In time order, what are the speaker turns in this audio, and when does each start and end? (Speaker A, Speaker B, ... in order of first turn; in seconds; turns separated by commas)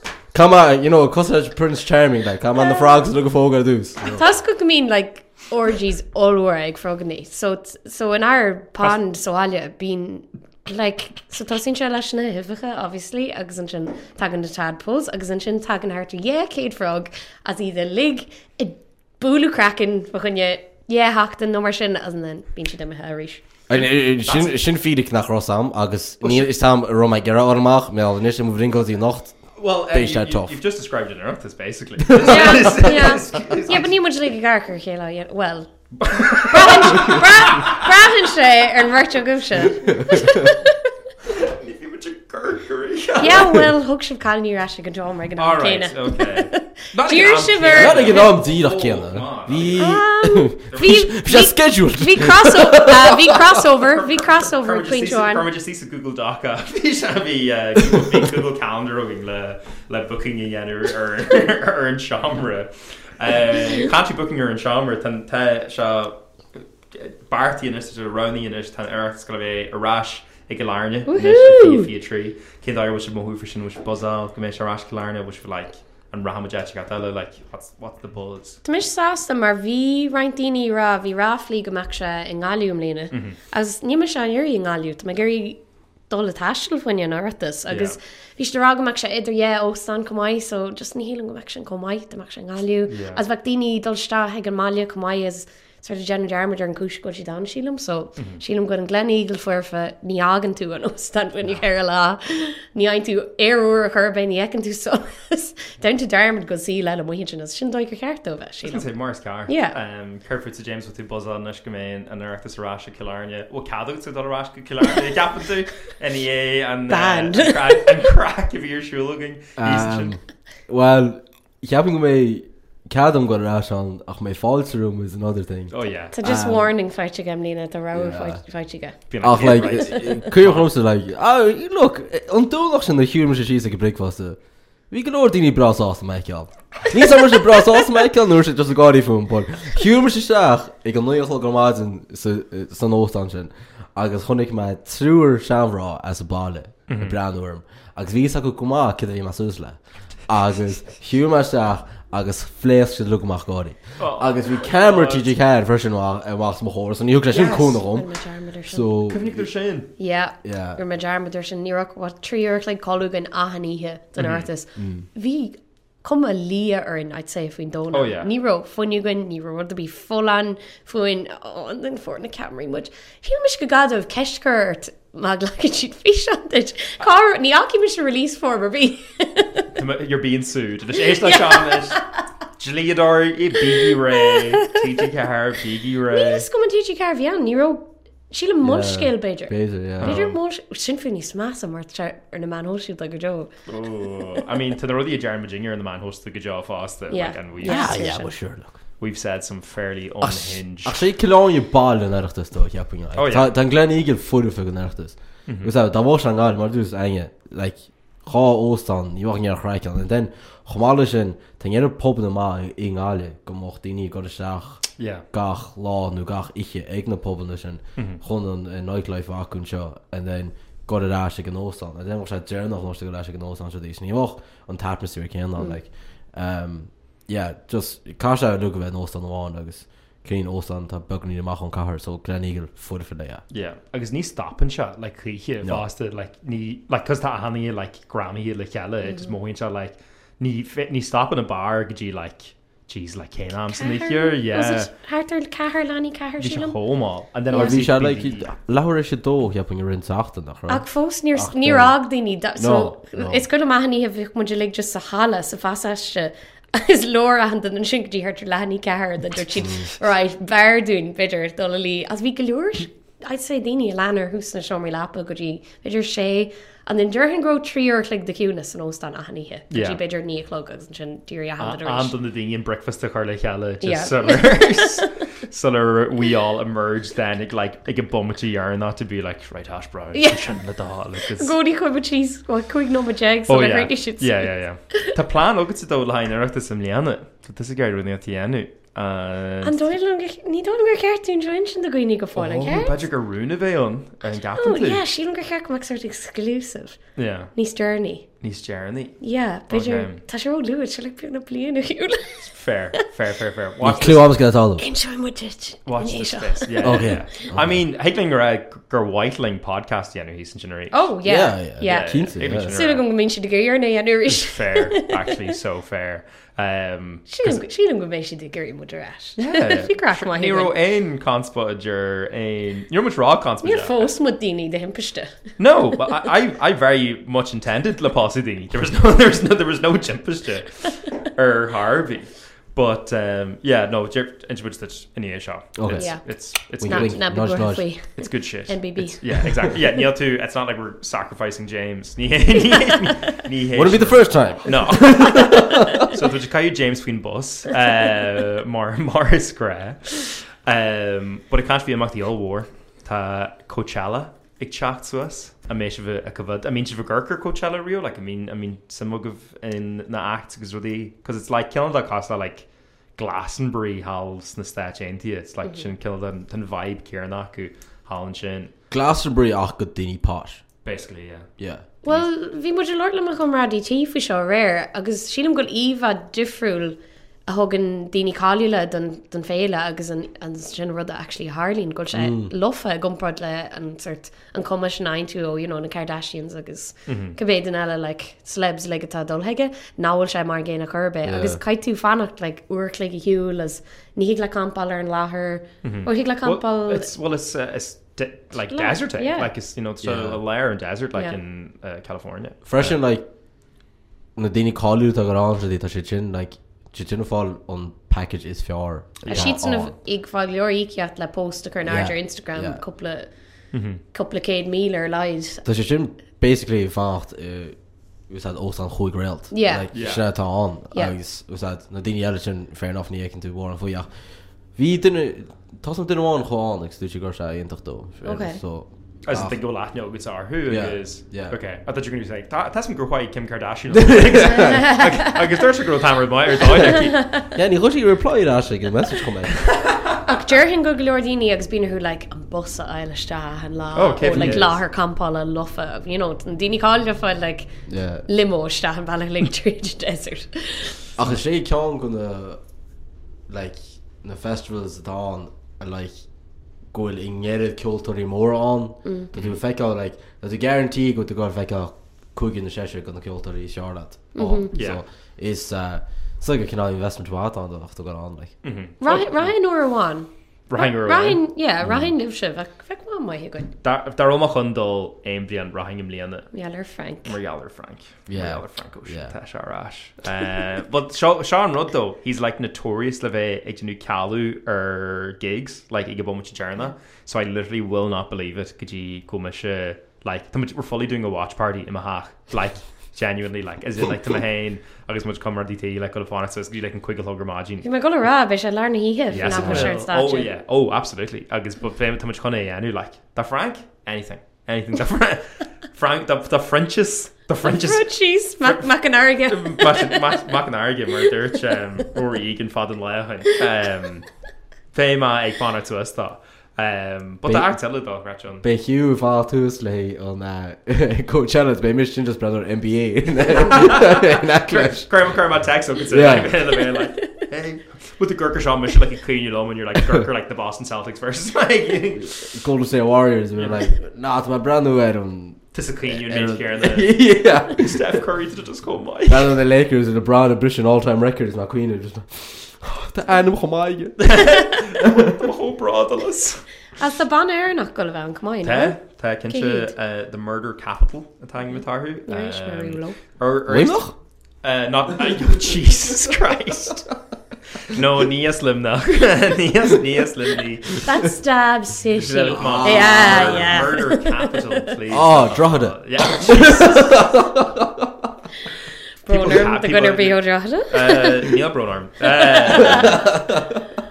Speaker A: 0.3-4.2, Speaker B: 2.6-3.0, Speaker B: 4.1-23.4, Speaker A: 23.7-30.6, Speaker C: 23.8-24.6, Speaker C: 29.6-34.0, Speaker A: 32.0-32.8, Speaker B: 32.1-40.9, Speaker C: 36.0-37.9, Speaker A: 40.0-40.5, Speaker C: 41.3-43.6, Speaker B: 43.2-48.4, Speaker C: 45.4-50.0, Speaker A: 47.7-53.4, Speaker B: 49.8-55.5, Speaker C: 50.7-51.1, Speaker C: 53.7-66.2, Speaker C: 66.9-78.6, Speaker B: 71.1-71.9, Speaker B: 78.6-108.9, Speaker C: 83.1-83.4, Speaker C: 87.7-88.0, Speaker C: 92.9-93.2, Speaker C: 108.6-120.2, Speaker B: 109.5-109.8, Speaker B: 116.9-118.0, Speaker A: 119.6-126.7, Speaker C: 125.7-126.1, Speaker B: 126.1-129.0, Speaker A: 127.9-128.4, Speaker C: 129.1-130.7, Speaker A: 129.2-134.4, Speaker A: 134.9-158.1, Speaker C: 146.9-147.2, Speaker C: 154.0-155.3, Speaker C: 157.3-157.8, Speaker B: 157.8-158.9, Speaker A: 158.7-159.5, Speaker C: 159.1-159.9, Speaker B: 160.0-179.7, Speaker A: 160.4-160.8, Speaker C: 164.2-164.5, Speaker A: 164.8-165.1, Speaker C: 167.9-168.3, Speaker C: 179.8-182.0, Speaker B: 181.2-182.0, Speaker C: 182.6-186.5, Speaker B: 184.2-184.8, Speaker B: 186.1-193.5, Speaker A: 188.6-190.2, Speaker C: 190.0-190.4, Speaker C: 193.7-197.9, Speaker B: 197.1-198.3, Speaker A: 197.6-198.8, Speaker C: 199.0-201.0, Speaker A: 200.2-233.4, Speaker C: 203.2-203.5, Speaker C: 205.5-205.7, Speaker C: 215.0-215.2, Speaker C: 218.0-218.2, Speaker C: 233.5-244.9, Speaker B: 243.7-246.8, Speaker C: 246.4-248.5, Speaker B: 247.5-247.8, Speaker A: 247.5-251.9, Speaker B: 250.7-272.1, Speaker A: 252.6-253.4, Speaker C: 269.7-270.0, Speaker C: 271.6-281.5, Speaker B: 273.8-275.1, Speaker B: 280.1-280.6, Speaker B: 281.3-285.1, Speaker C: 283.5-289.9, Speaker B: 289.6-293.0, Speaker C: 292.4-295.0, Speaker B: 294.6-297.0, Speaker C: 297.2-297.5, Speaker B: 297.6-298.3, Speaker C: 298.4-300.2, Speaker B: 299.2-302.5, Speaker C: 302.5-304.3, Speaker A: 303.8-304.8, Speaker B: 304.8-307.1, Speaker C: 305.9-311.1, Speaker A: 306.8-307.8, Speaker B: 310.9-315.3, Speaker A: 311.2-312.8, Speaker C: 311.8-313.0, Speaker C: 314.3-317.6, Speaker B: 317.3-320.7, Speaker C: 319.4-324.1, Speaker B: 323.6-325.4, Speaker C: 325.6-337.2, Speaker A: 335.8-336.2, Speaker B: 336.0-336.2, Speaker A: 336.8-337.9, Speaker B: 336.8-339.2, Speaker C: 338.1-368.7, Speaker A: 343.7-346.2, Speaker B: 345.0-345.8, Speaker A: 368.9-370.6, Speaker C: 370.9-371.5, Speaker A: 371.6-371.8, Speaker B: 372.0-377.0, Speaker B: 377.5-397.1, Speaker A: 382.1-382.5, Speaker C: 387.1-387.4, Speaker A: 391.2-391.6, Speaker C: 395.8-402.9, Speaker B: 398.7-399.5, Speaker A: 400.0-400.4, Speaker A: 402.7-403.2, Speaker A: 404.4-409.9, Speaker C: 409.2-409.6, Speaker B: 409.3-413.3, Speaker A: 411.9-412.8, Speaker C: 413.7-414.0, Speaker B: 414.1-415.6, Speaker A: 415.6-417.8, Speaker A: 418.3-424.1, Speaker B: 419.5-419.9, Speaker C: 419.9-420.2, Speaker A: 424.8-429.6, Speaker B: 428.2-428.6, Speaker C: 429.2-437.3, Speaker A: 430.7-431.6, Speaker A: 433.9-435.0, Speaker B: 434.5-435.3, Speaker B: 437.0-437.5, Speaker A: 437.5-439.6, Speaker C: 439.7-440.0, Speaker B: 440.2-447.7, Speaker C: 443.9-444.8, Speaker A: 444.2-444.7, Speaker A: 447.9-448.3, Speaker B: 448.3-451.0, Speaker A: 451.2-452.6, Speaker A: 453.5-456.3, Speaker A: 456.9-468.6, Speaker B: 459.1-459.3, Speaker B: 464.4-464.7, Speaker C: 464.7-465.0, Speaker C: 468.6-469.3, Speaker B: 469.0-473.7, Speaker C: 470.7-471.4, Speaker A: 471.8-472.1, Speaker C: 473.8-476.5, Speaker B: 476.5-477.3, Speaker C: 477.2-497.9, Speaker A: 478.3-479.3, Speaker B: 497.8-500.5, Speaker C: 499.3-508.1, Speaker A: 499.4-499.9, Speaker B: 507.6-510.4, Speaker C: 508.6-508.9, Speaker C: 509.5-514.3, Speaker C: 514.9-518.6, Speaker A: 517.5-517.7, Speaker A: 518.6-525.1, Speaker C: 523.6-532.6, Speaker A: 526.1-526.6, Speaker B: 527.0-527.4, Speaker A: 532.2-538.2, Speaker C: 533.6-533.9, Speaker C: 535.7-539.5, Speaker A: 539.3-545.3, Speaker C: 544.2-546.7, Speaker B: 547.0-549.0, Speaker C: 548.6-557.2, Speaker B: 549.5-549.9, Speaker B: 552.3-553.2, Speaker A: 553.7-554.1, Speaker C: 557.8-561.1, Speaker B: 561.0-564.9, Speaker C: 562.2-567.4, Speaker A: 562.5-563.9, Speaker A: 565.1-568.3, Speaker B: 569.2-571.5, Speaker C: 569.3-573.4, Speaker B: 572.3-573.3, Speaker A: 572.9-573.6